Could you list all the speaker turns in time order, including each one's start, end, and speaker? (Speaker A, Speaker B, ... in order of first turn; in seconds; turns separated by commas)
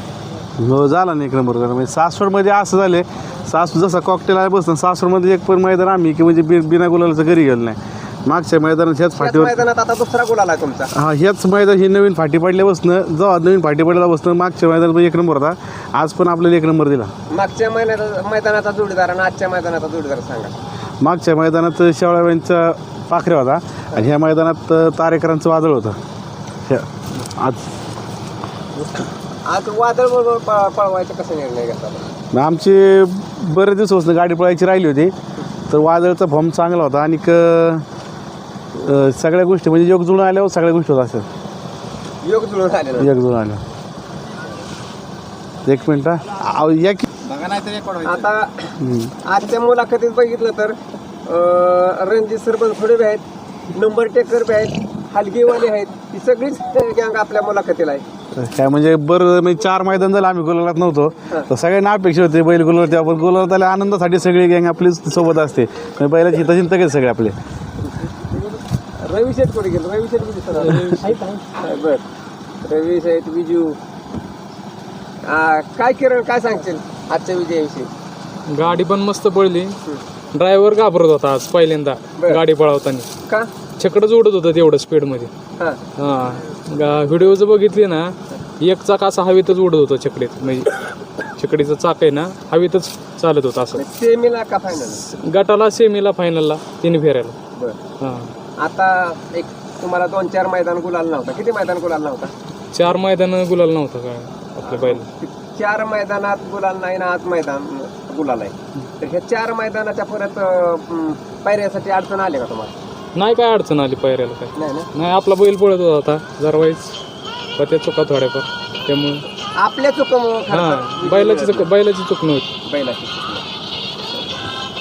Speaker A: 0.6-9.6, Speaker B: 9.2-10.9, Speaker A: 10.9-17.1, Speaker B: 17.3-20.5, Speaker A: 21.0-26.0, Speaker A: 26.7-27.6, Speaker B: 29.4-32.0, Speaker A: 32.3-35.1, Speaker A: 35.7-37.8, Speaker A: 38.7-41.2, Speaker B: 42.2-43.1, Speaker A: 43.0-43.6, Speaker A: 45.6-47.1, Speaker B: 47.9-53.2, Speaker A: 48.8-49.1, Speaker B: 53.7-58.0, Speaker A: 58.3-67.3, Speaker B: 69.0-72.0, Speaker B: 72.6-73.8, Speaker B: 75.2-77.9, Speaker C: 78.5-79.8, Speaker C: 80.3-83.1, Speaker B: 82.2-82.4, Speaker B: 83.2-83.5, Speaker C: 83.8-85.3, Speaker C: 86.0-90.7, Speaker C: 91.4-93.8, Speaker B: 93.7-95.0, Speaker C: 95.2-97.4, Speaker C: 98.0-98.3, Speaker B: 98.6-102.3, Speaker C: 102.7-105.0, Speaker B: 104.6-112.7, Speaker C: 113.2-117.0, Speaker B: 114.5-114.9, Speaker C: 117.6-119.2, Speaker B: 119.5-121.7, Speaker C: 120.5-122.5, Speaker B: 122.6-123.4